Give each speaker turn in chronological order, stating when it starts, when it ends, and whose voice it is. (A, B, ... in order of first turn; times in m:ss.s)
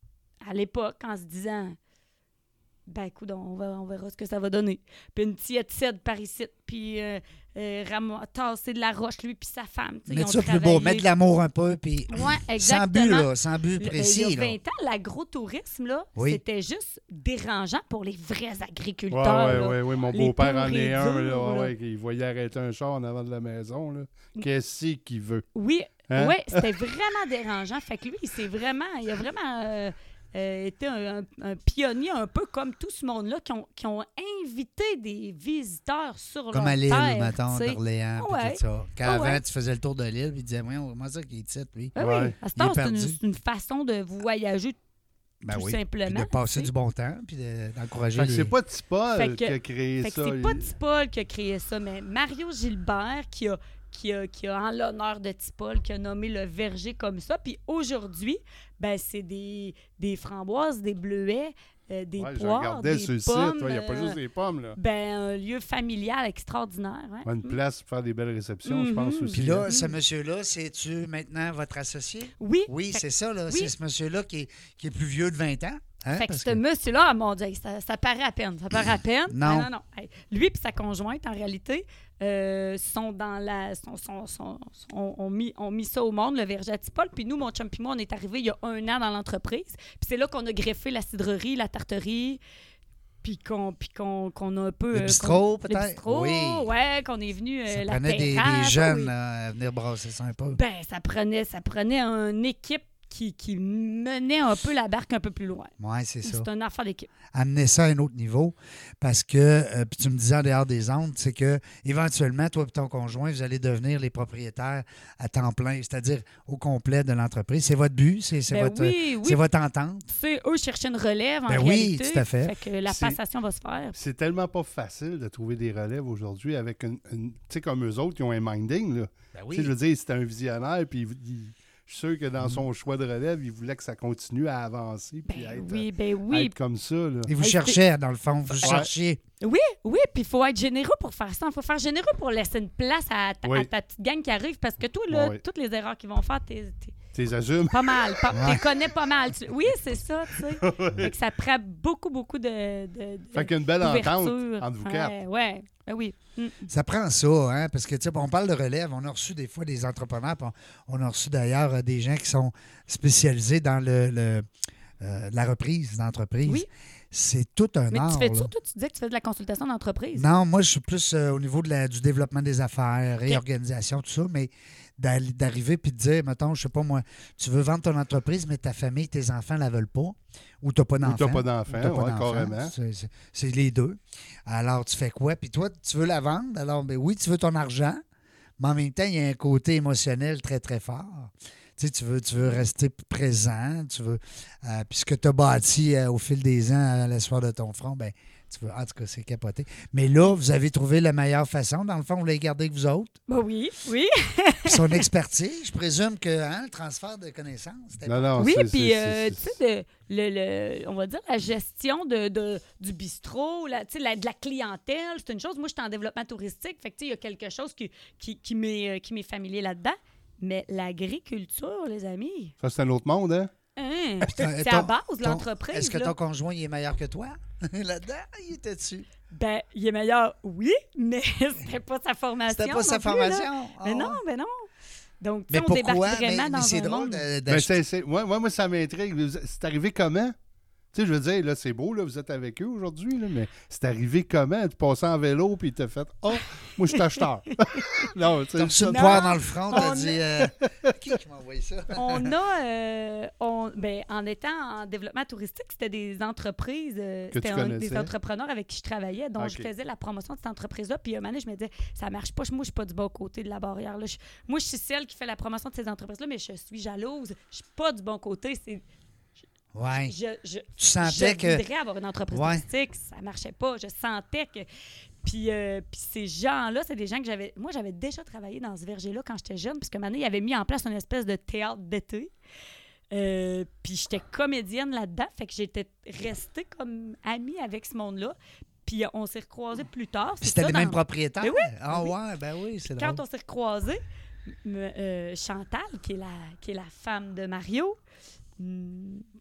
0:00.4-0:01.8 A
0:02.9-0:11.0 A
0:10.1-0:14.6 B
0:12.1-0:21.7 A
0:19.1-0:25.5 C
0:25.5-0:39.4 A
0:26.1-0:26.7 C
0:36.5-0:42.0 B
0:42.0-0:44.8 A
0:42.0-0:42.4 C
0:42.5-0:43.2 B
0:45.4-0:48.5 B
0:45.5-0:46.7 A
0:48.1-0:50.7 C
0:49.2-1:04.2 A
1:02.2-1:04.8 C
1:04.8-1:07.6 A
1:07.2-1:09.7 C
1:08.6-1:09.9 A
1:09.3-1:16.6 B
1:12.4-1:13.7 A
1:16.1-1:32.4 A
1:19.3-1:19.7 B
1:33.2-1:39.1 A
1:34.9-1:36.7 B
1:37.7-1:40.6 B
1:40.5-1:45.7 A
1:45.8-1:46.5 B
1:46.2-1:47.1 A
1:47.3-2:00.0 B
1:58.5-1:59.4 A
2:00.1-2:04.0 A
2:01.5-2:02.5 B
2:02.8-2:03.2 C
2:03.9-2:17.3 C
2:09.3-2:09.7 B
2:15.3-2:16.5 A
2:17.3-2:19.2 B
2:17.4-2:17.8 A
2:18.6-2:18.9 C
2:19.4-2:26.9 A
2:25.1-2:25.4 C
2:27.1-2:28.6 C
2:27.7-2:36.7 A
2:28.3-2:28.6 B
2:30.4-2:31.1 C
2:33.3-2:35.2 C
2:36.7-2:44.5 B
2:45.0-2:48.5 B
2:47.9-2:50.3 A
2:50.1-3:08.0 B
3:01.0-3:02.7 C
3:08.6-3:23.2 B
3:12.4-3:12.6 A
3:23.3-3:25.0 A
3:24.6-3:28.5 B
3:28.0-3:29.5 C
3:28.4-3:42.5 A
3:42.6-3:43.5 C
3:43.8-3:46.1 A
3:44.2-3:49.1 B
3:49.3-3:54.7 A
3:52.5-3:54.2 B
3:55.2-3:57.2 A
3:55.5-3:57.8 B
3:57.5-4:00.3 C
4:00.9-4:09.9 C
4:08.6-4:12.3 B
4:08.9-4:10.2 A
4:10.4-4:10.9 C
4:11.9-4:28.8 A
4:17.3-4:18.1 C
4:19.4-4:19.7 C
4:29.7-4:30.1 B
4:29.9-4:34.7 A
4:30.8-4:31.6 B
4:32.3-4:32.6 B
4:35.2-4:42.3 A
4:43.1-4:52.1 A
4:50.4-4:53.2 B
4:52.9-4:58.0 A
4:58.6-4:59.3 A